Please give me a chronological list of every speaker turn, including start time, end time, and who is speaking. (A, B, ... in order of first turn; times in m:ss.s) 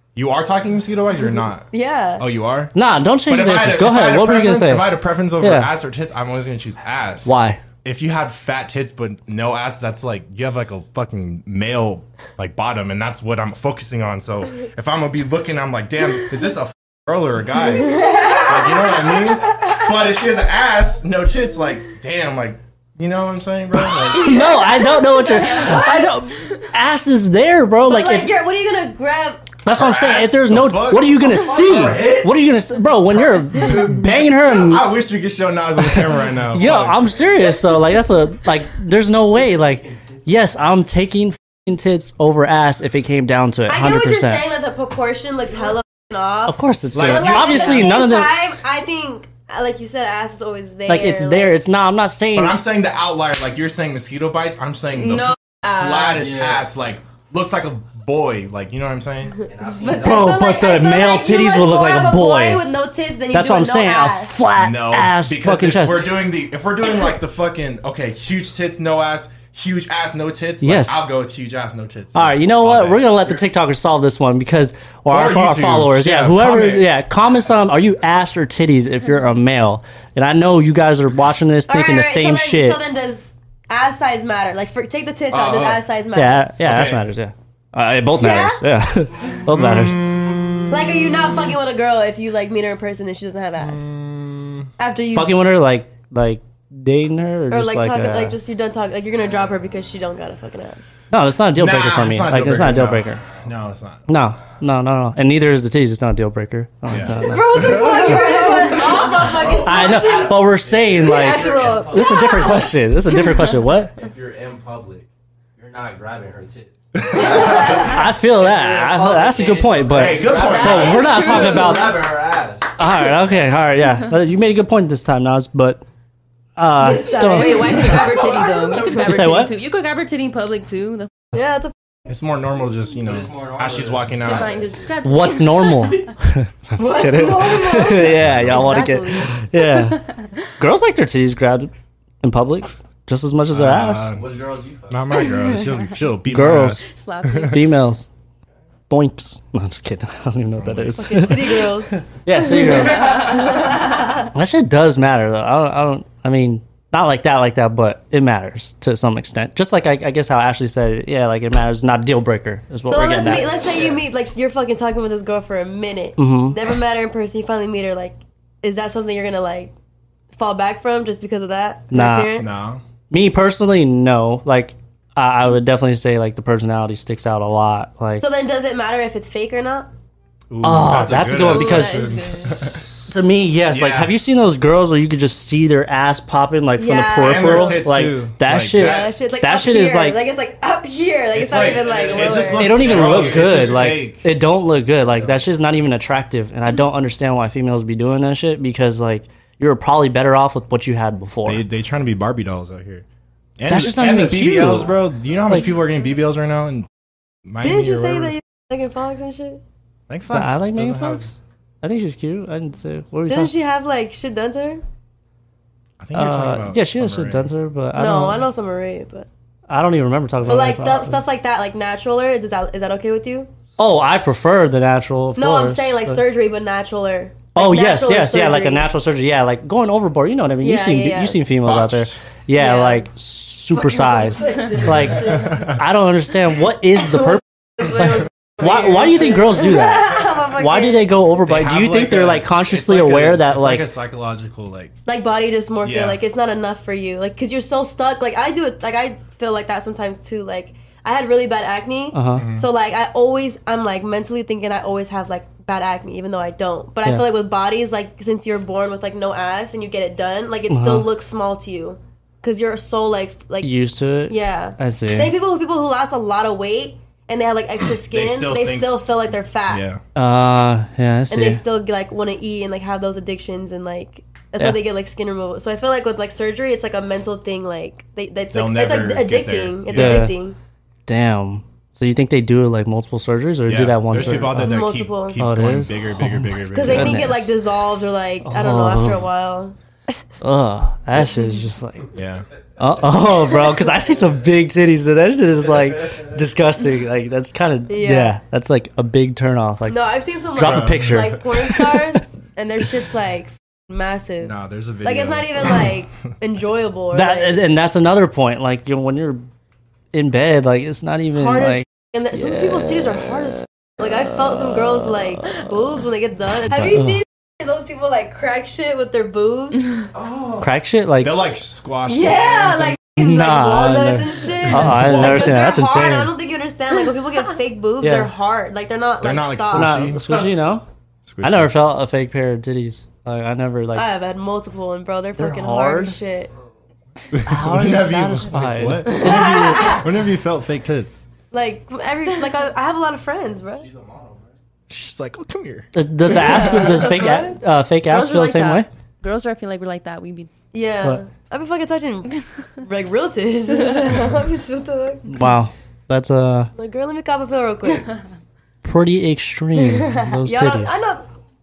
0:00.2-0:01.7 A
0:01.7-0:02.2 B
0:02.2-0:02.7 A
0:02.8-0:05.7 C
0:03.3-0:24.5 A
0:07.3-0:07.6 C
0:17.8-0:19.8 B
0:24.1-0:28.3 C
0:24.4-0:25.7 B
0:25.2-0:26.3 D
0:27.9-0:29.6 B
0:29.6-0:34.9 C
0:29.7-0:32.1 A
0:31.4-0:32.4 E
0:33.6-0:37.1 A
0:35.9-0:44.5 C
0:43.7-0:51.6 B
0:46.5-0:48.4 C
0:46.9-0:47.8 A
0:50.9-0:52.6 C
0:52.3-0:59.4 A
0:55.0-0:56.2 D
0:56.1-0:56.7 E
0:59.5-1:00.5 E
0:59.7-1:04.4 B
0:59.9-1:02.7 C
1:03.3-1:06.3 C
1:04.6-1:13.3 A
1:10.6-1:11.1 C
1:12.2-1:22.8 C
1:15.1-1:16.9 A
1:21.7-1:26.5 B
1:25.4-1:25.7 A
1:26.1-1:30.0 C
1:26.6-1:27.0 A
1:28.2-1:28.6 B
1:29.5-1:31.6 A
1:30.7-1:33.9 B
1:33.6-1:34.7 A
1:34.8-1:35.4 B
1:35.1-1:38.4 C
1:37.5-1:40.9 B
1:41.1-1:43.2 C
1:41.6-1:44.1 A
1:44.1-1:48.0 C
1:46.9-1:48.3 A
1:47.2-1:50.4 B
1:48.2-1:52.5 E
1:49.6-1:54.0 C
1:51.0-1:52.7 B
1:54.0-2:02.7 E
1:57.0-1:57.7 A
1:57.4-1:57.9 B
1:57.6-2:02.0 C
1:59.9-2:01.1 A
2:00.3-2:02.0 D
2:02.8-2:05.8 C
2:06.6-2:08.0 C
2:06.8-2:08.8 B
2:07.1-2:11.1 D
2:09.0-2:09.5 C
2:11.3-2:11.7 B
2:12.1-2:14.6 A
2:13.0-2:14.9 E
2:14.2-2:16.1 D
2:15.0-2:20.0 C
2:16.8-2:18.8 B
2:18.1-2:18.8 A
2:18.4-2:20.3 D
2:20.6-2:24.1 C
2:23.5-2:24.3 A
2:24.1-2:25.1 E
2:24.9-2:26.9 A
2:25.3-2:25.8 D
2:26.3-2:28.1 C
2:26.9-2:27.7 D
2:28.9-2:33.7 C
2:30.6-2:31.4 A
2:31.0-2:32.0 B
2:32.6-2:34.3 B
2:33.0-2:33.5 D
2:34.3-2:43.5 C
2:42.9-2:49.7 B
2:43.3-2:44.0 E
2:46.2-2:46.6 C
2:50.3-2:52.5 B
2:51.9-2:52.4 C
2:52.4-2:52.8 A
2:53.1-2:58.3 C
2:58.2-2:59.9 B
3:00.5-3:02.8 A
3:00.6-3:02.1 C
3:01.4-3:02.6 D
3:03.1-3:10.2 C
3:03.7-3:04.2 A
3:06.8-3:07.8 B
3:07.1-3:09.1 A
3:08.8-3:12.8 B
3:11.3-3:14.3 A
3:11.5-3:13.4 E
3:12.6-3:21.6 C
3:21.4-3:23.0 A
3:23.6-3:26.9 A
3:23.7-3:24.9 C
3:27.4-3:28.4 A
3:27.6-3:29.6 B
3:30.1-3:31.3 A
3:30.3-3:33.6 C
3:33.3-3:34.8 B
3:36.0-3:37.5 A
3:36.1-3:38.5 C
3:38.0-3:39.3 B
3:39.7-3:41.2 C
3:40.5-3:43.5 B
3:43.8-3:46.2 C
3:45.4-3:48.9 B
3:47.6-4:03.9 C
3:50.6-3:51.4 B
3:51.6-3:52.2 A
3:52.6-3:53.1 B
3:53.7-3:55.8 B
3:55.1-3:55.8 A
3:57.1-4:01.1 B
4:01.5-4:05.0 A
4:05.1-4:23.7 B
4:05.8-4:06.2 A
4:12.1-4:12.4 C
4:12.4-4:12.7 A
4:20.7-4:21.1 C
4:23.6-4:25.3 C
4:24.3-4:29.8 B
4:28.0-4:29.1 A
4:29.7-4:30.0 A
4:30.2-4:31.6 C
4:31.3-4:40.6 B
4:38.5-4:40.3 A
4:39.9-4:40.4 C
4:41.1-4:44.9 C
4:43.7-4:47.5 A
4:44.2-4:45.4 B
4:45.4-4:47.5 C
4:46.7-4:50.2 B
4:48.4-4:49.3 C
4:50.4-4:52.1 C
4:52.1-4:52.4 A
4:52.8-5:02.0 C
4:57.9-4:58.4 B
4:59.9-5:07.6 B
5:00.6-5:01.4 A
5:04.4-5:06.0 A
5:07.1-5:09.5 C
5:10.1-5:13.5 C
5:11.3-5:20.1 B
5:14.6-5:15.6 C
5:16.7-5:17.2 C
5:20.2-5:20.6 E
5:20.6-5:21.4 C
5:21.2-5:23.0 A
5:22.1-5:30.1 B
5:23.2-5:26.3 C
5:24.7-5:25.8 A
5:28.0-5:28.3 C
5:29.2-5:30.4 A
5:29.7-5:30.8 C
5:31.2-5:31.7 A
5:31.4-5:34.1 C
5:34.0-5:36.5 B
5:35.4-5:36.2 C
5:37.3-5:41.2 A
5:37.4-5:40.0 C
5:39.1-5:40.0 B
5:41.5-5:43.9 B
5:43.8-5:44.6 E
5:44.9-5:45.9 A
5:45.9-5:48.9 C
5:46.3-5:47.5 B
5:48.1-5:50.5 D
5:50.7-5:55.4 B
5:55.3-5:56.7 C
5:56.8-5:58.1 B
5:58.8-6:01.0 C
5:59.8-6:01.3 B